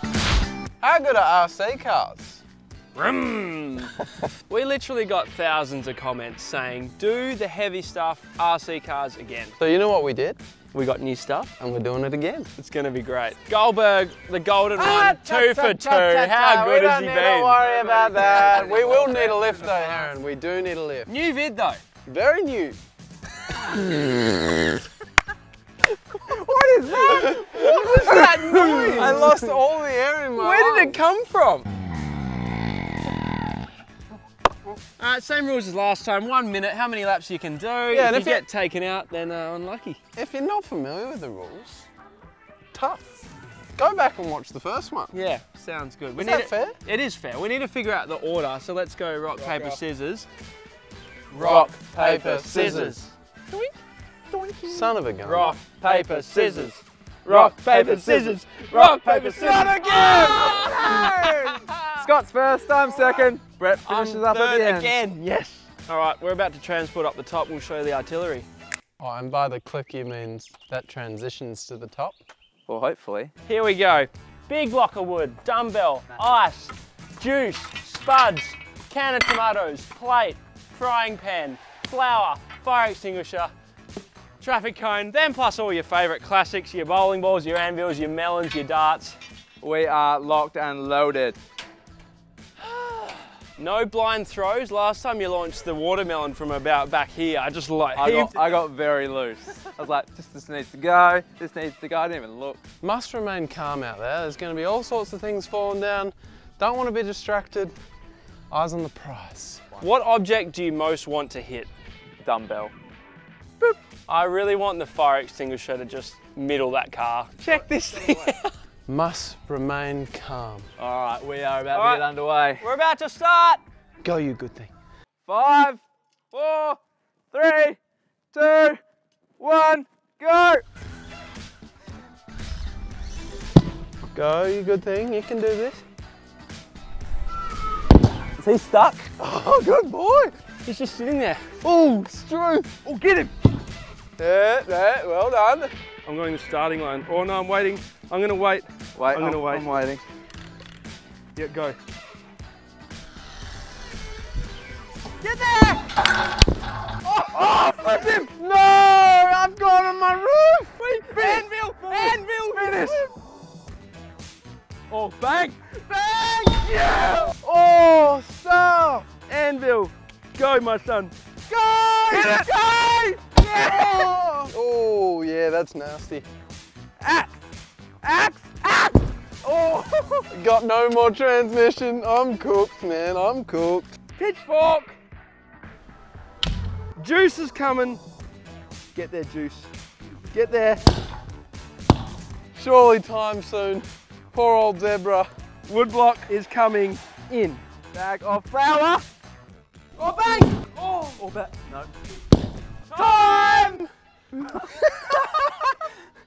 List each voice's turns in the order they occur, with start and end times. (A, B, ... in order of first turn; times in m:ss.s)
0:00.8-0:02.4 A
0:02.9-0:09.6 B
0:09.6-0:10.4 A
0:10.7-0:11.5 B
0:11.6-0:12.5 A
0:12.6-0:19.9 B
0:14.8-0:21.1 A
0:17.7-0:19.4 C
0:21.0-0:21.8 B
0:22.0-0:22.8 A
0:23.5-0:24.8 A
0:26.2-0:29.2 C
0:27.0-0:31.0 A
0:27.1-0:29.5 B
0:30.3-0:31.7 B
0:35.0-0:40.0 B
0:37.9-0:38.4 A
0:40.2-0:41.9 A
0:42.7-0:43.0 A
0:43.8-0:45.1 A
0:45.1-0:50.3 B
0:46.2-0:46.8 A
0:49.4-0:49.8 A
0:51.3-0:51.8 B
0:51.4-0:52.7 C
0:51.8-0:53.0 A
0:52.4-0:53.7 B
0:54.3-0:54.9 C
0:54.6-0:55.6 A
0:55.2-1:02.0 B
0:55.8-0:56.7 C
0:57.2-1:04.9 C
1:02.9-1:03.2 B
1:03.8-1:08.4 B
1:09.0-1:12.2 A
1:12.7-1:13.3 C
1:13.4-1:23.5 B
1:24.4-1:29.2 B
1:29.6-1:31.4 C
1:32.9-1:38.6 B
1:38.0-1:42.6 C
1:42.8-1:47.7 A
1:48.5-1:49.7 A
1:49.8-1:51.7 B
1:52.2-1:52.7 C
1:54.1-1:58.5 B
1:58.9-2:00.7 A
2:00.8-2:02.6 C
2:01.7-2:02.1 B
2:02.6-2:03.6 B
2:04.0-2:04.7 A
2:05.2-2:06.8 C
2:07.3-2:07.8 C
2:08.3-2:08.8 C
2:09.4-2:10.6 C
2:14.1-2:15.8 A
2:18.4-2:19.1 C
2:19.2-2:20.3 A
2:20.6-2:21.5 B
2:21.6-2:22.7 A
2:22.8-2:23.3 C
2:24.2-2:25.7 A
2:26.0-2:29.8 B
2:28.9-2:30.0 C
2:31.4-2:31.8 B
2:35.2-2:35.8 B
2:37.2-2:38.2 C
2:37.8-2:41.4 A
2:41.0-2:43.0 B
2:41.1-2:43.0 C
2:44.9-2:45.6 C
2:46.6-2:47.3 C
2:47.4-2:49.0 A
2:49.1-2:51.1 B
2:51.5-2:54.4 C
2:52.1-2:52.5 B
2:53.3-2:54.3 B
2:54.5-2:56.2 A
2:57.0-2:57.3 B
2:58.0-2:58.9 B
2:59.4-3:00.2 B
3:00.3-3:03.9 A
3:04.2-3:05.0 B
3:07.0-3:08.0 B
3:08.9-3:09.7 B
3:10.3-3:10.8 B
3:12.5-3:15.3 A
3:15.7-3:17.6 B
3:17.9-3:19.0 C
3:20.0-3:21.2 B
3:20.0-3:21.9 C
3:22.9-3:23.9 B
3:24.5-3:25.3 C